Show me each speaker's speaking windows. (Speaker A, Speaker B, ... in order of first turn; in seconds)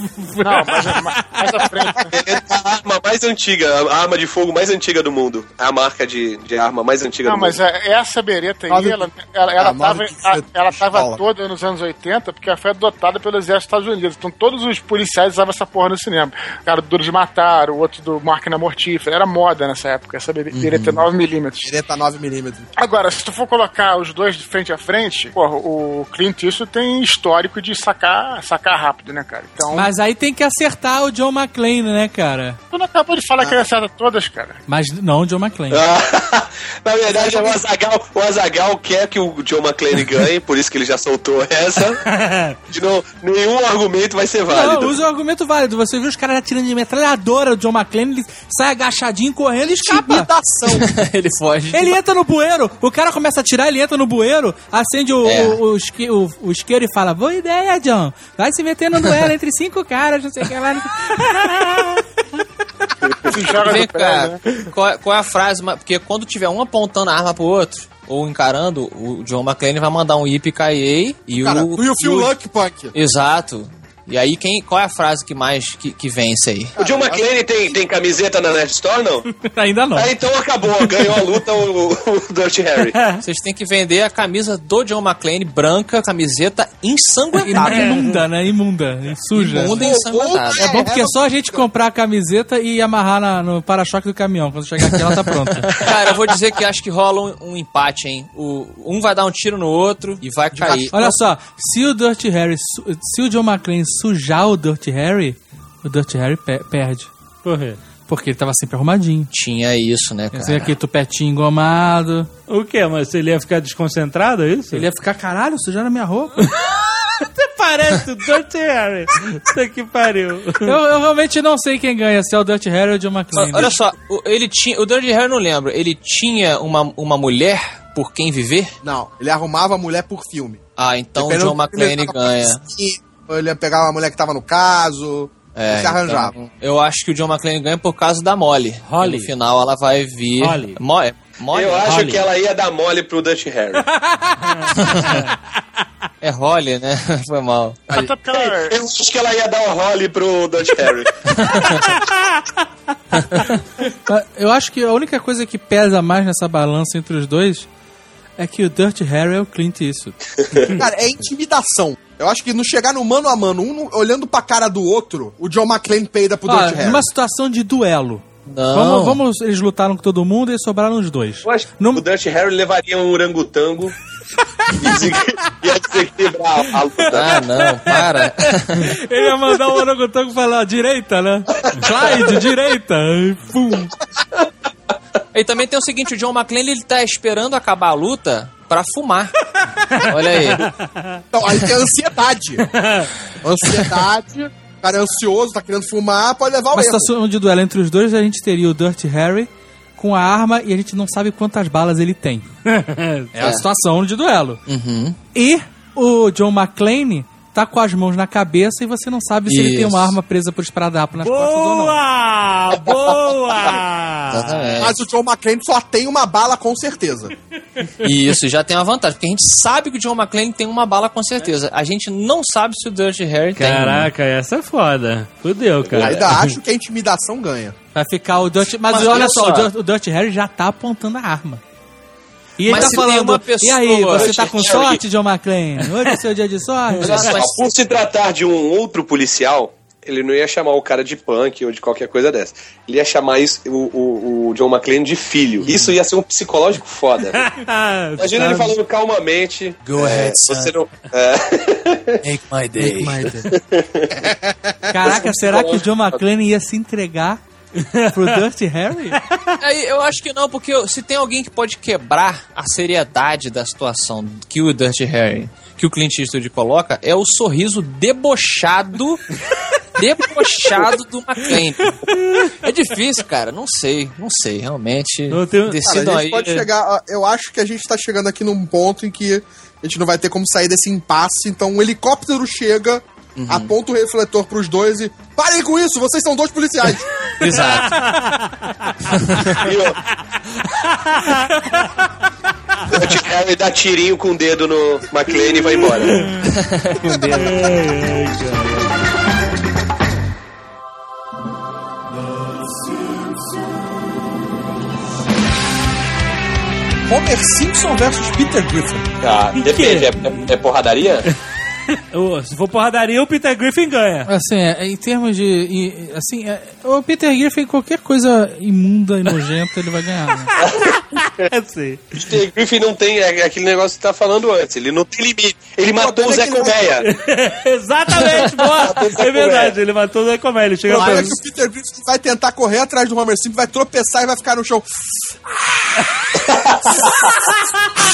Speaker A: 0.2-1.0, 29.7-32.6, 34.7-35.8, 44.5-50.3, 51.7-62.0, 79.5-80.1, 87.4-89.8, 90.6-95.7, 100.9-107.1, 108.1-109.3, 110.3-112.3, 114.7-116.4, 120.6-123.8, 144.0-144.8, 153.9-157.7, 158.4-160.2, 166.5-172.0, 178.8-183.9, 196.7-202.5, 203.3-204.6, 205.3-212.0, 227.9-231.6, 232.6-237.3, 252.8-253.4, 254.9-257.4, 258.1-259.2, 291.5-292.0, 314.3-320.5
Speaker B: 0.4-2.1, 7.2-21.7, 22.8-29.9, 32.7-34.6, 63.3-64.6, 147.9-148.8
Speaker C: 2.1-7.6, 35.7-42.0, 42.7-45.0, 76.8-79.3, 79.9-83.0, 141.5-143.9, 148.0-151.4, 171.4-173.9, 174.8-177.4, 181.7-182.2, 234.1-235.0, 237.0-247.5, 248.2-252.2, 253.5-254.2, 255.0-256.2, 289.6-290.0, 292.9-296.3, 309.2-311.3, 322.1-327.1, 328.8-329.7, 336.5-337.1
Speaker D: 8.7-9.0, 9.6-11.2, 20.6-20.9, 21.6-22.7, 49.8-50.9, 71.4-72.9, 76.8-77.3, 89.5-91.7, 100.5-100.9, 128.8-130.6, 131.2-136.3, 160.7-167.1, 191.3-192.7, 193.4-197.1, 214.8-217.3, 225.9-227.7, 275.8-287.1, 307.1-309.1, 325.9-326.9, 330.9-334.9
Speaker E: 42.0-42.6, 82.9-83.2, 87.7-88.0, 107.4-107.8, 112.5-114.9, 116.5-120.8, 138.8-139.3, 140.4-140.8, 141.9-142.2, 144.4-145.3, 189.9-191.2, 192.7-193.1, 202.7-203.3, 211.2-214.9, 223.6-226.6, 247.3-248.7, 257.8-258.4, 272.1-272.5, 275.3-275.9, 287.4-288.9, 290.5-291.4, 295.9-296.3, 297.4-298.9, 309.6-310.1, 311.9-314.3, 320.6-322.2, 327.0-331.4
Speaker F: 50.6-52.0, 55.2-55.6, 63.5-72.3, 72.9-76.8, 83.2-88.1, 89.3-90.7, 95.3-101.2, 109.3-110.7, 123.3-128.7, 130.8-132.6, 135.6-142.1, 146.2-148.0, 153.2-153.6, 168.4-169.2, 177.1-178.9, 185.3-189.3, 190.1-190.7, 203.4-203.7, 204.7-205.2, 209.5-210.2, 214.3-214.9, 218.0-224.1, 228.7-229.7, 232.7-234.4, 237.0-237.8, 245.6-245.9, 249.8-250.7, 252.2-253.4, 259.6-269.2, 269.9-276.7, 283.4-283.7, 287.4-288.0, 289.1-289.6, 296.4-297.7, 331.0-331.3